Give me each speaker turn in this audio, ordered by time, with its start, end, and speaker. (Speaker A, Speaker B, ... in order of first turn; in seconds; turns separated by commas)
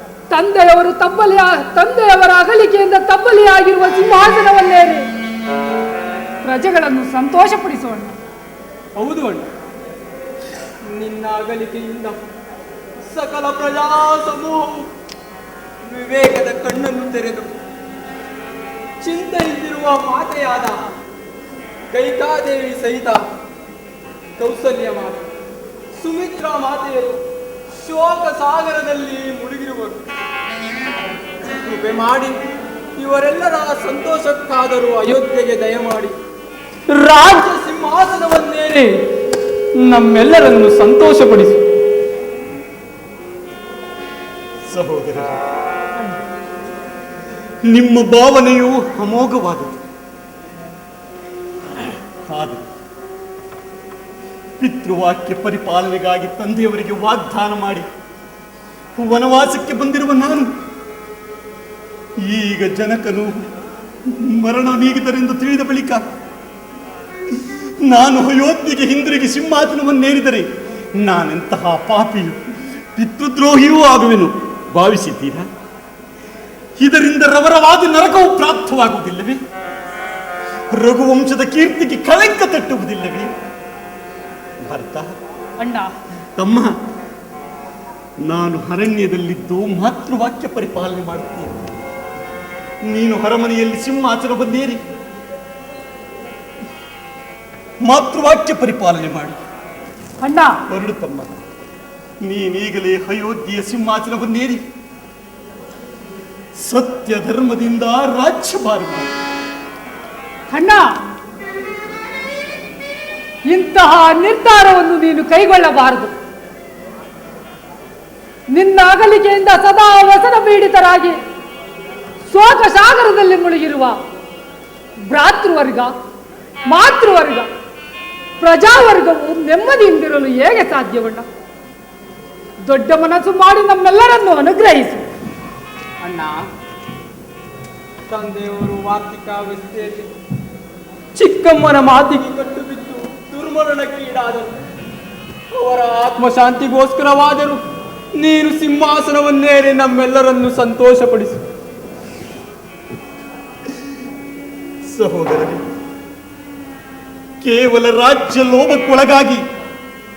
Speaker A: 0.3-5.0, Speaker A: 6.4-8.1, Speaker B: 8.9-9.5, Speaker B: 10.9-12.2, Speaker B: 13.1-14.9, Speaker B: 15.8-17.5, Speaker B: 19.0-20.8, Speaker B: 21.9-23.2, Speaker B: 24.4-25.2, Speaker B: 26.0-30.1, Speaker B: 31.6-32.4, Speaker B: 33.0-36.1, Speaker B: 36.9-39.0, Speaker B: 39.8-41.6, Speaker C: 44.7-45.4, Speaker C: 47.7-49.8, Speaker C: 52.2-52.6, Speaker C: 54.6-57.9, Speaker C: 59.0-60.5, Speaker C: 62.2-63.5, Speaker C: 64.1-66.0, Speaker C: 67.4-70.5, Speaker C: 71.0-72.4, Speaker C: 73.0-75.5, Speaker C: 76.8-79.4, Speaker C: 80.7-83.3, Speaker C: 84.6-85.1, Speaker A: 85.6-85.9, Speaker C: 86.4-86.7, Speaker C: 88.2-91.7, Speaker C: 92.9-94.8, Speaker C: 97.8-99.4, Speaker A: 100.2-100.5, Speaker C: 100.7-101.3, Speaker C: 102.2-104.6, Speaker C: 106.6-109.1, Speaker A: 110.5-110.9, Speaker A: 113.5-116.1, Speaker A: 118.5-121.2, Speaker A: 122.3-124.0, Speaker A: 125.1-125.9, Speaker A: 126.7-127.5, Speaker A: 128.4-131.2, Speaker A: 132.6-135.1, Speaker B: 136.0-136.4, Speaker B: 138.1-140.1, Speaker B: 141.1-144.6, Speaker B: 145.5-147.6, Speaker B: 148.2-151.4, Speaker C: 154.9-155.6, Speaker C: 157.4-159.4